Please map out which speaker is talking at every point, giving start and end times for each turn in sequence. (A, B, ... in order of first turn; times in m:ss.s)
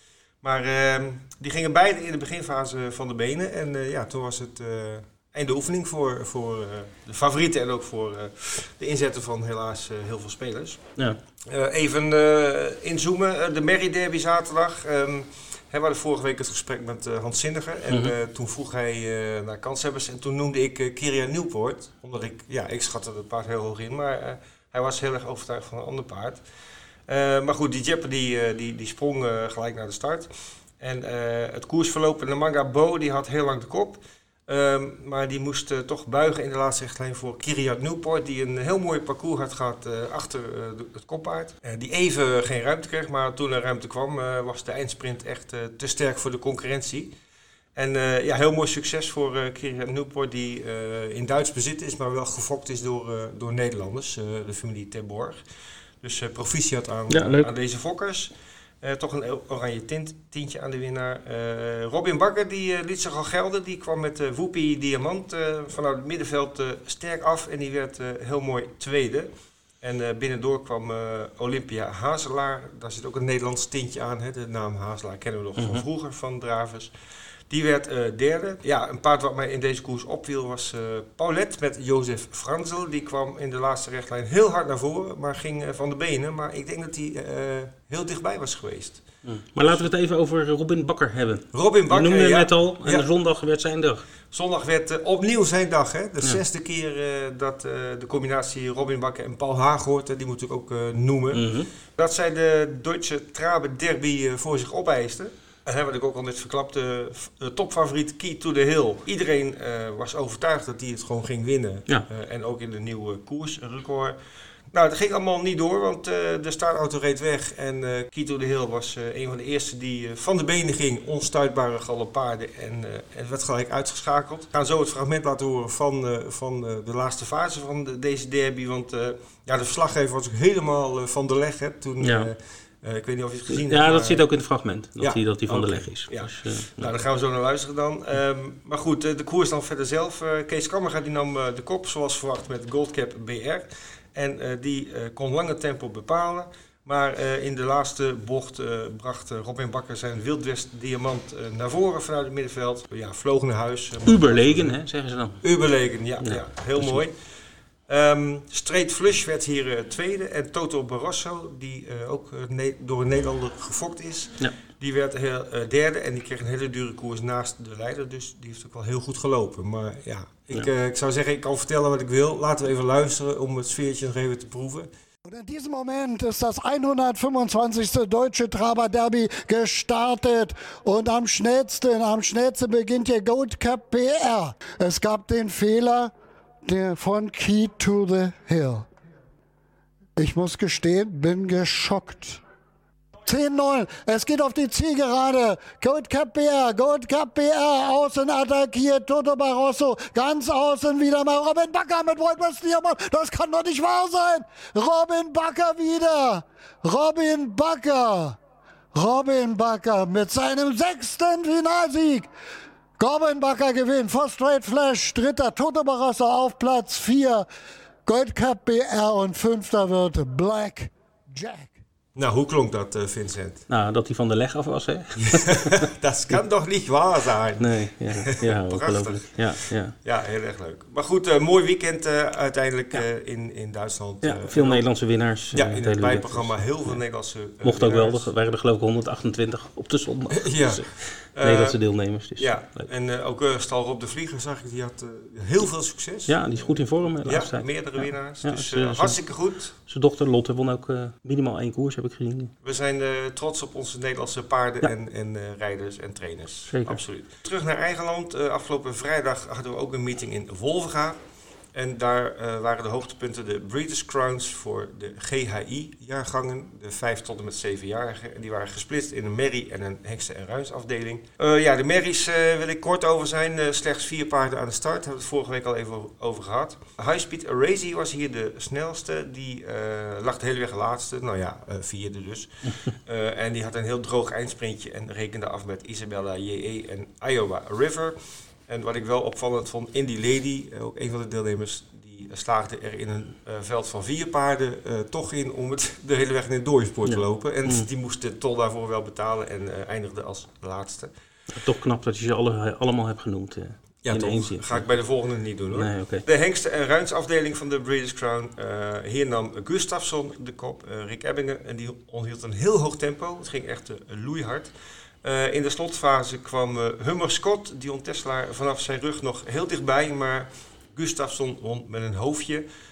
0:00.4-0:10.8 A
0:11.5-0:26.4 A
0:27.1-0:47.1 A
0:47.8-0:55.4 A
0:56.0-1:09.3 A
0:57.1-0:57.5 B
1:09.8-1:16.9 A
1:15.6-1:15.8 B
1:17.5-1:29.0 A
1:29.2-1:34.0 B
1:29.6-1:29.9 A
1:31.5-1:33.1 A
1:34.3-1:54.2 A
1:41.3-1:41.7 B
1:54.7-2:14.2 A
2:12.0-2:12.3 B
2:13.5-2:16.9 B
2:15.0-2:34.8 A
2:34.0-2:35.4 B
2:35.4-2:37.3 A
2:36.2-2:37.0 B
2:37.9-2:54.9 A
2:55.3-3:06.1 C
3:06.6-3:08.9 C
3:10.2-3:12.4 C
3:13.2-3:28.4 C
3:28.9-3:32.3 C
3:33.0-3:37.5 C
3:38.1-3:41.8 C
3:42.2-3:43.6 A
3:43.7-3:45.9 B
3:45.3-3:54.8 A
3:47.6-3:50.0 B
3:54.2-3:57.0 B
3:55.5-3:58.3 A
3:57.6-4:02.9 B
4:00.3-4:01.8 A
4:02.4-4:09.8 A
4:06.3-4:09.2 B
4:09.9-4:12.5 B
4:12.6-4:21.2 A
4:16.7-4:17.0 B
4:21.7-5:01.1 A
4:57.0-4:57.9 B
5:01.5-5:04.9 B
5:04.0-5:22.7 A
5:05.7-5:06.2 B